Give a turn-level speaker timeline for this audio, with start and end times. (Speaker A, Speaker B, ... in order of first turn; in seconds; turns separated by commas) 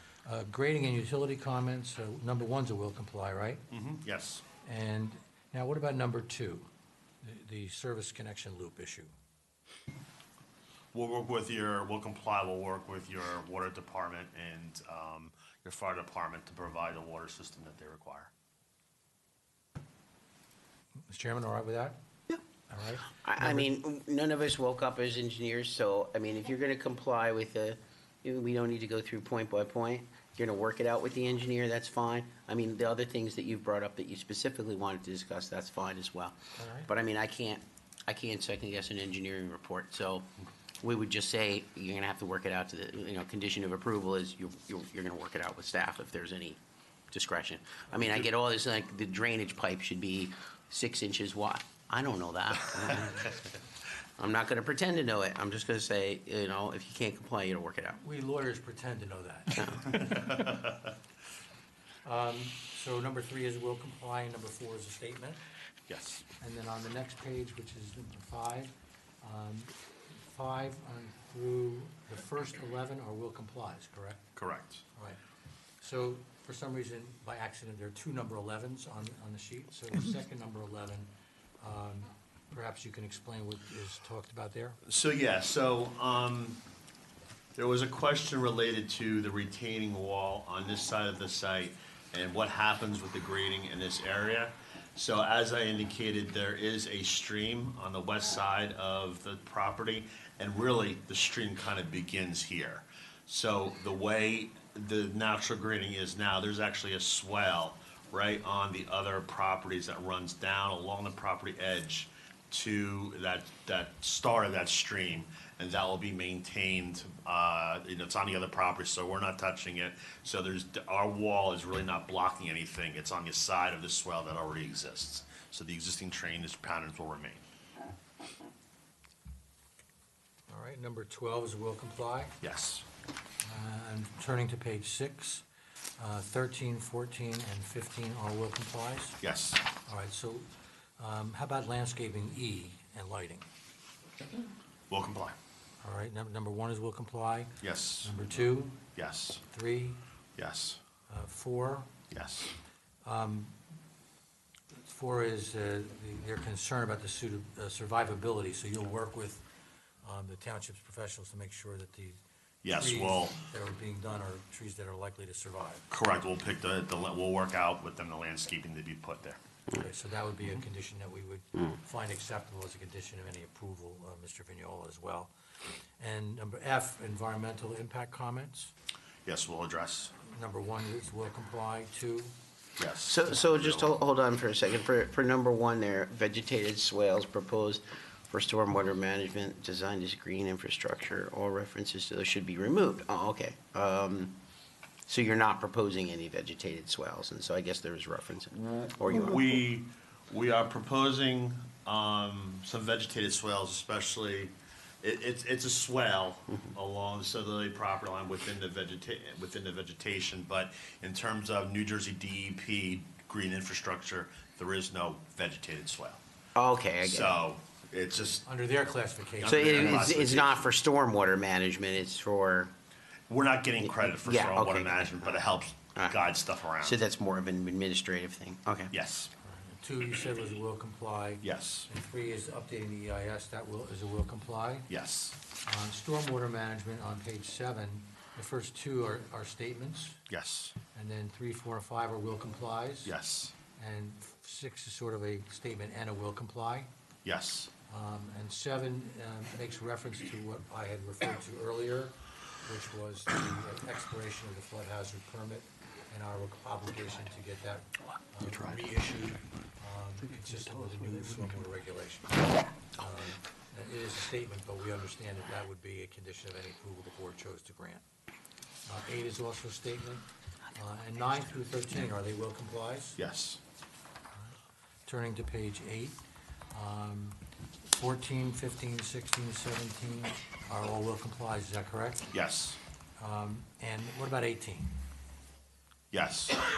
Speaker A: 0.2-3.6, Speaker B: 3.7-4.4, Speaker A: 4.6-6.7, Speaker A: 7.2-9.1, Speaker B: 10.9-18.3, Speaker A: 21.0-22.0, Speaker A: 22.7-23.7, Speaker C: 23.2-40.3, Speaker A: 36.6-36.9, Speaker C: 40.8-46.6, Speaker C: 47.1-53.5, Speaker C: 54.2-58.0, Speaker A: 58.0-60.1, Speaker C: 59.6-59.9, Speaker B: 60.1-60.7, Speaker A: 62.0-65.4, Speaker B: 65.9-66.2, Speaker A: 66.4-74.3, Speaker B: 74.4-74.8, Speaker A: 75.0-75.2, Speaker A: 75.8-84.8, Speaker B: 84.9-86.6, Speaker B: 87.6-127.4, Speaker A: 130.5-132.4, Speaker B: 132.4-132.8, Speaker A: 133.4-135.4, Speaker A: 136.0-139.2, Speaker B: 139.2-139.6, Speaker A: 139.9-140.5, Speaker A: 141.0-143.5, Speaker B: 144.9-145.4, Speaker A: 145.8-148.8, Speaker B: 147.6-148.1, Speaker B: 148.9-149.4, Speaker A: 149.5-150.0, Speaker B: 150.4-150.8, Speaker A: 151.1-151.9, Speaker B: 152.1-152.5, Speaker A: 153.0-153.6, Speaker A: 154.7-159.4, Speaker A: 160.0-162.2, Speaker B: 162.6-163.4, Speaker A: 162.7-165.9, Speaker B: 165.9-169.4, Speaker A: 169.7-175.3, Speaker A: 176.0-178.7, Speaker B: 179.3-180.1, Speaker A: 180.2-182.3, Speaker B: 182.8-183.9, Speaker C: 183.1-194.4, Speaker C: 195.1-199.6, Speaker B: 198.7-216.2, Speaker C: 216.6-217.4, Speaker B: 217.0-218.4, Speaker A: 218.4-220.1, Speaker B: 219.4-220.7, Speaker C: 219.4-222.7, Speaker B: 223.3-227.0, Speaker C: 223.8-225.4, Speaker C: 226.8-228.9, Speaker B: 228.9-229.3, Speaker A: 229.4-234.9, Speaker B: 231.4-231.9, Speaker B: 234.9-235.4, Speaker A: 235.6-240.2, Speaker B: 240.3-240.8, Speaker A: 240.9-243.2, Speaker B: 243.1-243.6, Speaker A: 243.8-246.9, Speaker B: 247.2-247.7, Speaker A: 247.9-268.0, Speaker B: 258.5-258.8, Speaker A: 268.9-273.2, Speaker B: 273.2-273.6, Speaker A: 275.1-276.2, Speaker A: 276.7-282.3, Speaker B: 282.3-282.8, Speaker A: 283.2-284.9, Speaker B: 286.1-286.6